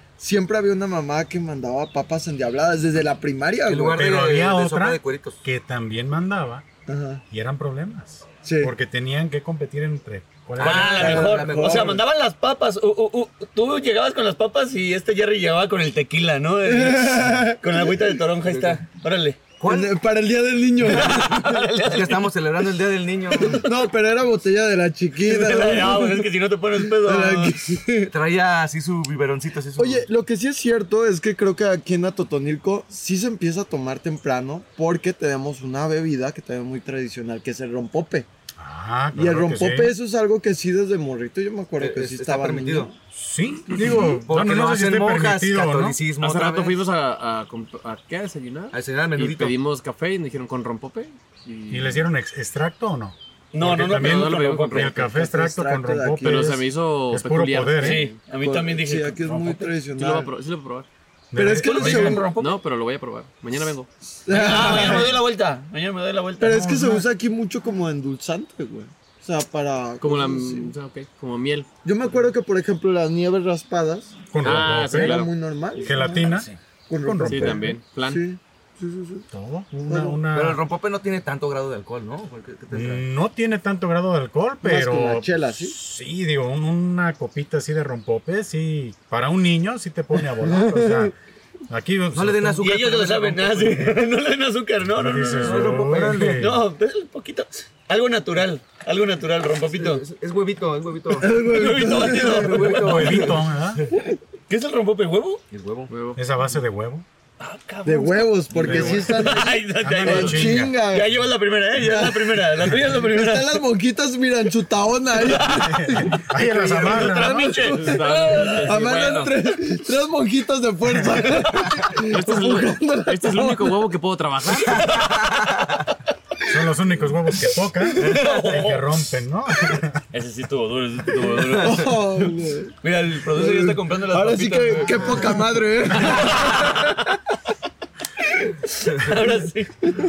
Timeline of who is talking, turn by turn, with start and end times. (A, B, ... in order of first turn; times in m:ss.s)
0:00.2-0:04.0 A
0:03.6-0:05.4 B
0:03.9-0:06.6 C
0:06.9-0:07.2 A
0:07.3-0:11.1 C
0:08.4-0:08.7 A
0:10.6-0:12.0 B
0:10.6-0:19.4 D
0:10.9-0:12.0 A
0:16.6-0:18.1 A
0:18.5-0:18.8 B
0:19.6-0:19.9 B
0:19.6-0:21.7 A
0:20.8-0:22.3 D
0:21.8-0:23.6 B
0:23.4-0:28.1 A
0:25.2-0:27.6 D
0:28.1-0:30.1 B
0:29.8-0:38.3 A
0:38.6-0:40.0 C
0:39.1-0:42.9 A
0:41.8-0:42.9 B
0:43.1-0:46.0 C
0:43.9-0:46.8 B
0:46.2-0:52.1 E
0:48.7-0:49.6 B
0:51.7-0:58.0 C
0:53.5-0:54.9 D
0:53.9-0:55.2 E
0:54.9-0:56.6 A
0:56.2-0:58.1 E
0:57.8-0:59.3 D
0:58.3-1:00.3 A
1:00.0-1:00.9 E
1:01.3-1:02.3 C
1:01.4-1:02.3 A
1:01.4-1:02.6 D
1:02.3-1:03.9 E
1:04.2-1:05.2 A
1:04.3-1:06.7 D
1:06.4-1:10.7 A
1:06.4-1:07.1 C
1:10.0-1:11.7 E
1:11.8-1:16.3 A
1:14.3-1:15.2 C
1:14.4-1:15.9 E
1:15.8-1:16.5 C
1:16.2-1:16.6 B
1:16.9-1:19.3 A
1:17.0-1:17.6 C
1:17.3-1:18.2 E
1:19.3-1:20.6 C
1:19.8-1:20.2 A
1:20.3-1:23.0 B
1:22.7-1:31.1 C
1:24.6-1:25.7 A
1:30.4-1:31.1 A
1:31.7-1:32.6 C
1:32.1-1:33.9 B
1:32.6-1:40.0 D
1:34.9-1:36.6 C
1:35.4-1:36.4 B
1:39.7-1:43.9 B
1:41.2-1:42.8 A
1:41.4-1:43.2 D
1:42.7-1:43.8 C
1:44.5-1:45.4 D
1:45.5-1:45.9 B
1:45.9-1:46.2 E
1:46.2-1:47.0 C
1:47.4-1:53.6 D
1:47.8-1:51.1 A
1:48.6-1:50.7 C
1:51.9-2:03.8 A
1:55.1-1:55.7 D
1:55.5-1:57.5 C
1:56.4-1:59.3 D
1:57.7-1:59.2 E
2:02.0-2:04.8 E
2:04.8-2:05.8 B
2:06.5-2:10.0 C
2:07.3-2:08.4 A
2:08.0-2:08.9 D
2:08.0-2:08.6 B
2:10.1-2:17.1 D
2:11.4-2:17.0 A
2:15.0-2:15.3 C
2:18.7-2:20.0 D